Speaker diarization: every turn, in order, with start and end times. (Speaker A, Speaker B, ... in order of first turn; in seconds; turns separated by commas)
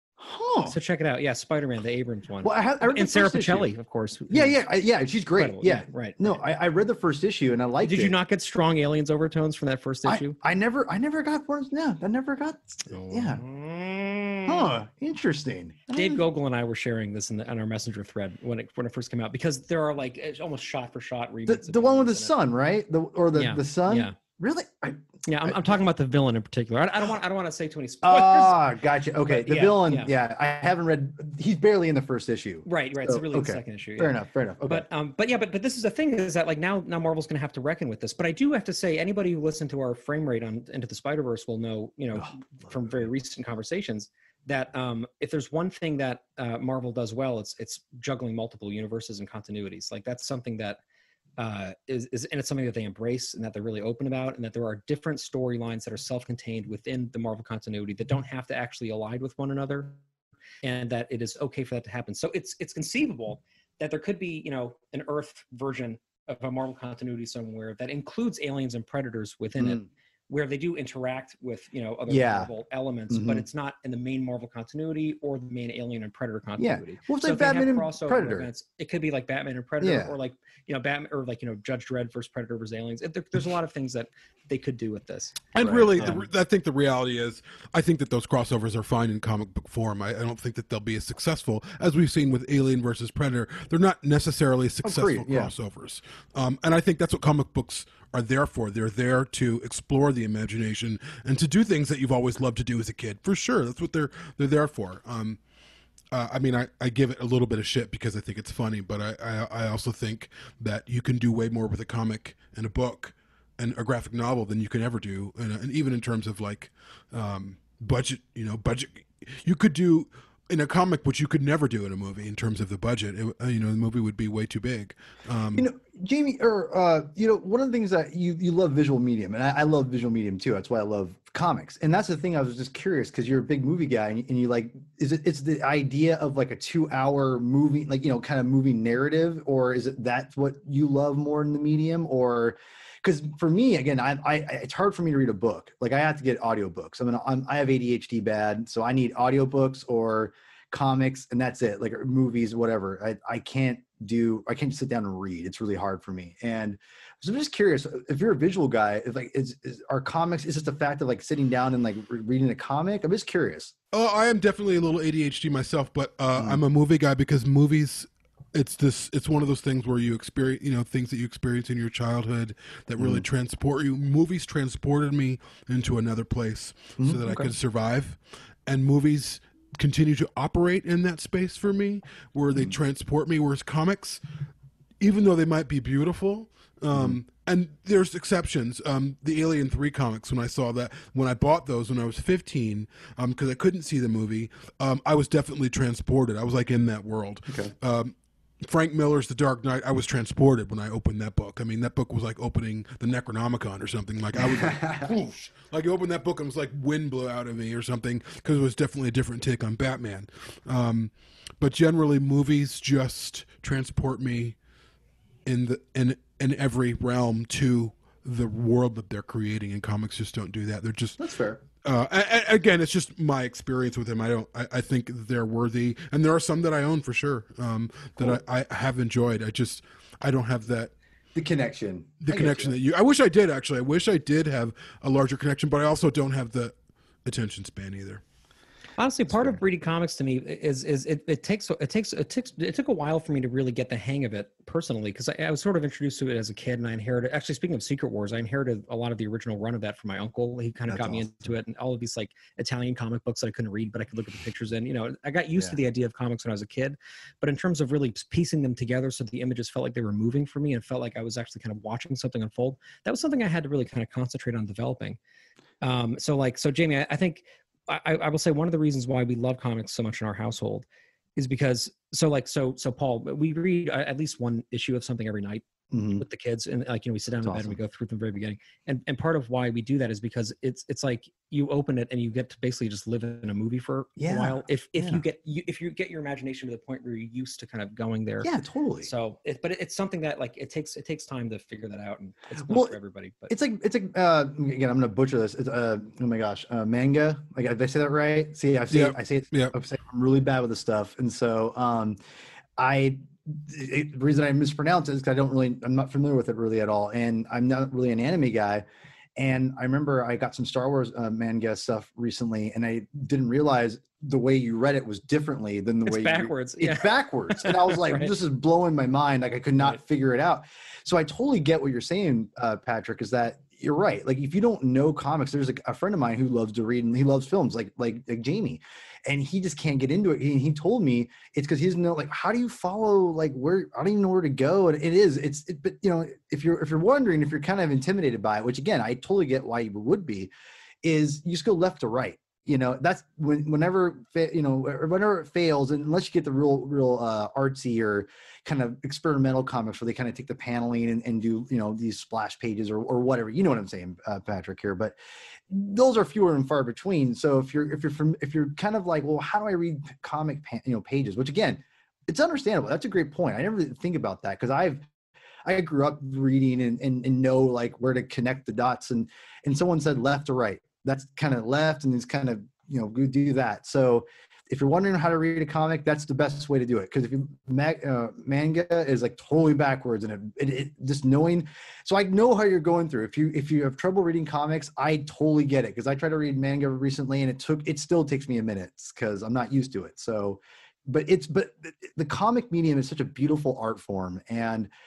Speaker A: 0.2-0.8, Speaker B: 0.6-4.6, Speaker A: 2.4-3.7, Speaker A: 4.3-8.2, Speaker B: 5.4-6.3, Speaker B: 7.8-10.4, Speaker A: 10.1-13.4, Speaker B: 12.9-14.8, Speaker A: 14.5-16.2, Speaker B: 15.9-22.3, Speaker A: 21.5-25.8, Speaker B: 23.3-24.2, Speaker B: 25.2-28.6, Speaker A: 28.0-34.9, Speaker B: 29.3-30.1, Speaker B: 32.7-50.8, Speaker B: 51.4-60.0, Speaker B: 60.6-86.2, Speaker A: 69.6-69.9, Speaker A: 72.1-72.5, Speaker A: 73.1-73.5, Speaker A: 76.6-78.5, Speaker A: 79.8-80.2, Speaker C: 85.5-105.4, Speaker A: 85.6-86.2, Speaker A: 94.8-95.5, Speaker C: 106.1-125.7, Speaker A: 125.5-163.8, Speaker C: 163.9-184.2, Speaker A: 173.0-173.3, Speaker A: 177.0-177.5, Speaker C: 185.0-214.6, Speaker A: 186.9-187.2, Speaker A: 204.4-205.1, Speaker C: 215.5-221.2, Speaker A: 221.2-221.6, Speaker C: 221.8-230.9, Speaker A: 231.3-232.8, Speaker C: 232.2-236.7, Speaker C: 237.2-238.2, Speaker B: 239.0-265.2, Speaker A: 239.3-239.6, Speaker A: 250.9-251.3, Speaker B: 265.8-275.7, Speaker A: 275.9-276.2, Speaker B: 276.2-288.5, Speaker A: 277.4-277.8, Speaker A: 284.2-285.2, Speaker A: 288.4-289.1, Speaker B: 289.0-293.5, Speaker A: 292.7-292.9, Speaker A: 293.5-302.2, Speaker C: 298.9-299.8, Speaker A: 302.8-308.9, Speaker A: 309.4-340.5, Speaker B: 316.1-318.3, Speaker A: 341.0-355.2, Speaker A: 355.7-365.1, Speaker A: 365.7-394.9